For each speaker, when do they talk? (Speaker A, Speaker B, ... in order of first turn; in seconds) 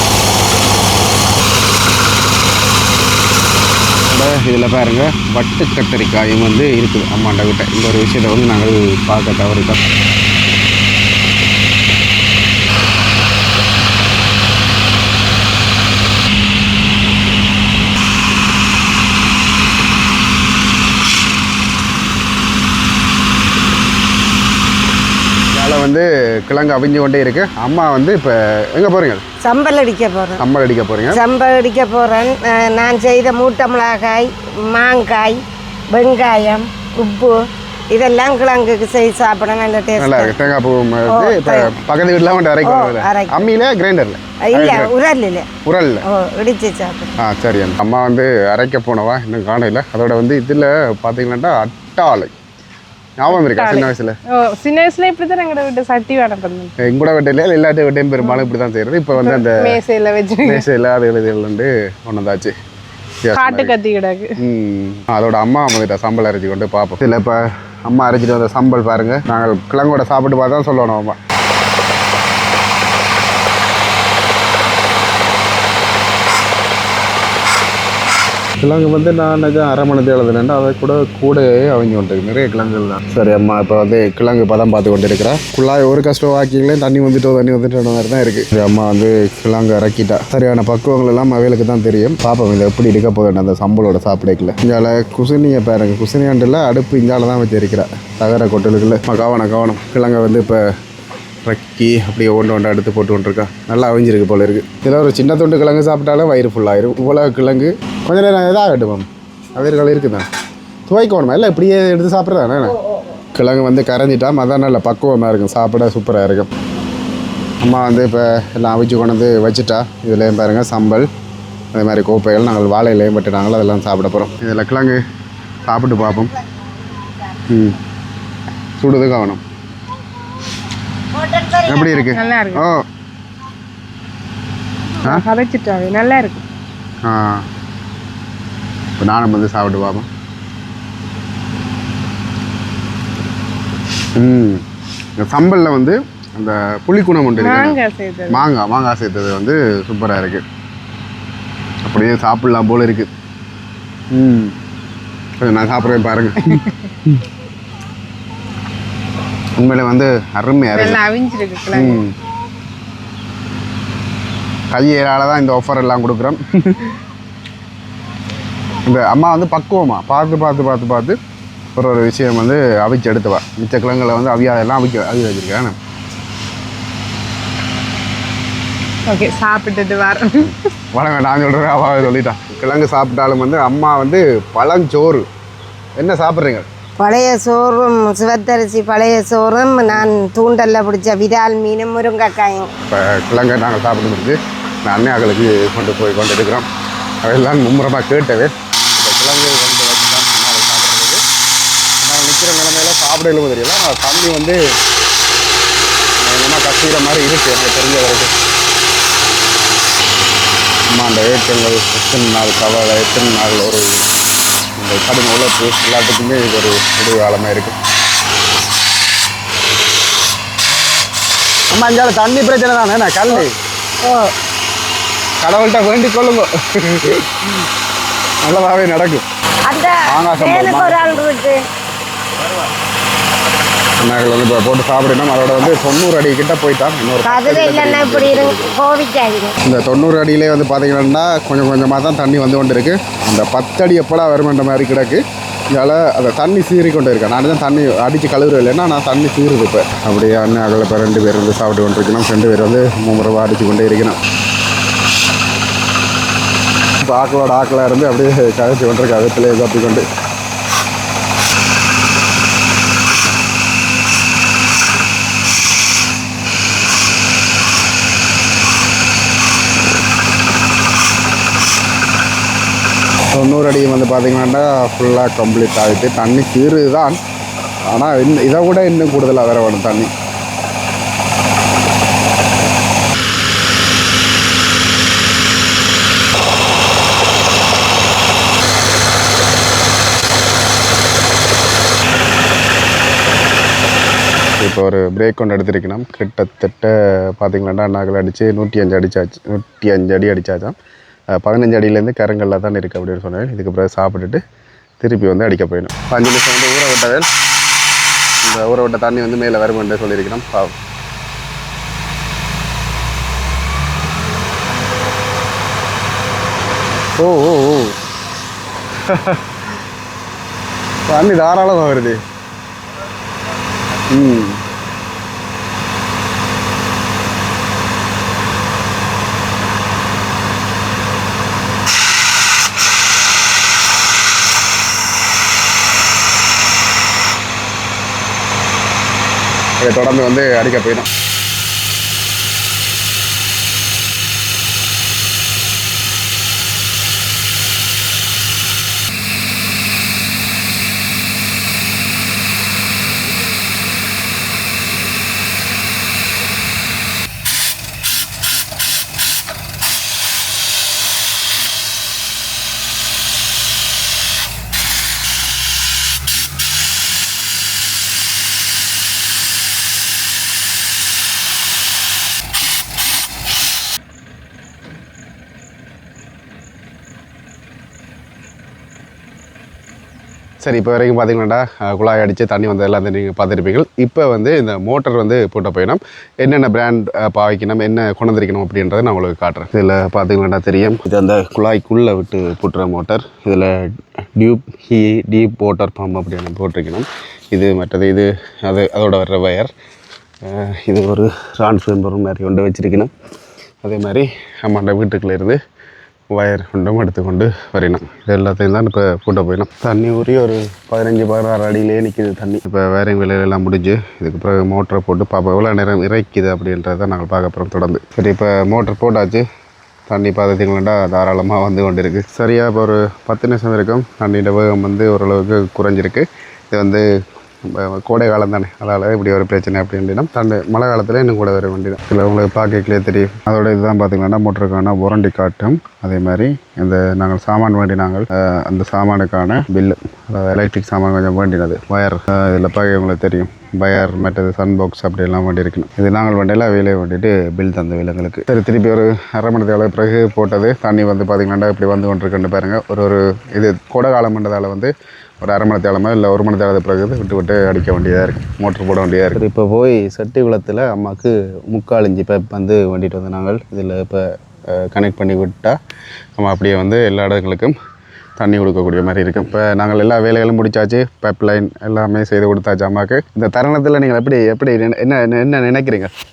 Speaker A: 4.0-9.8, 25.5-29.2, 30.4-31.2, 40.0-44.9, 45.6-46.0, 47.2-52.3, 53.2-54.2, 56.8-59.8, 60.4-62.5, 63.2-63.7, 64.4-71.2, 78.6-100.7, 101.4-110.2, 110.9-112.8, 113.4-116.5, 117.6-121.1, 121.7-125.0, 125.7-126.3, 127.5-127.8, 128.8-129.4, 131.7-132.9, 137.0-137.4, 139.0-140.1, 144.2-144.6, 145.2-147.8, 148.3-150.4, 151.8-153.1, 154.1-154.5, 155.4-157.2, 159.6-161.0, 161.7-162.2, 164.7-166.9, 168.9-171.2, 171.8-175.8, 180.4-185.3, 186.0-186.7, 192.9-196.7, 197.2-201.2, 202.0-204.6, 206.2-208.3, 210.9-214.1, 214.8-217.8, 221.7-223.6, 225.4-227.7, 228.4-229.2, 230.1-231.2, 234.0-238.7, 239.6-254.2, 257.0-260.1, 273.4-277.2, 277.9-280.1, 294.6-300.8, 301.3-304.4, 305.0-307.3, 308.4-310.7, 317.2-318.0, 319.0-319.5, 321.1-322.2, 324.1-324.6, 339.8-341.1, 380.6-399.7, 400.4-403.1, 403.8-405.6, 406.3-419.4, 420.1-427.1, 427.6-465.8, 466.4-467.8, 468.4-476.1
Speaker B: 29.4-30.4, 31.1-40.4, 41.1-41.8, 42.6-43.5, 44.4-45.5, 46.0-47.1, 131.2-132.1, 187.0-192.7, 224.0-224.3, 229.7-231.6, 237.2-239.6
Speaker C: 53.3-56.7, 59.1-60.6, 63.3-64.4, 132.1-132.7, 135.0-136.4, 147.4-148.4, 160.7-162.0, 179.1-180.5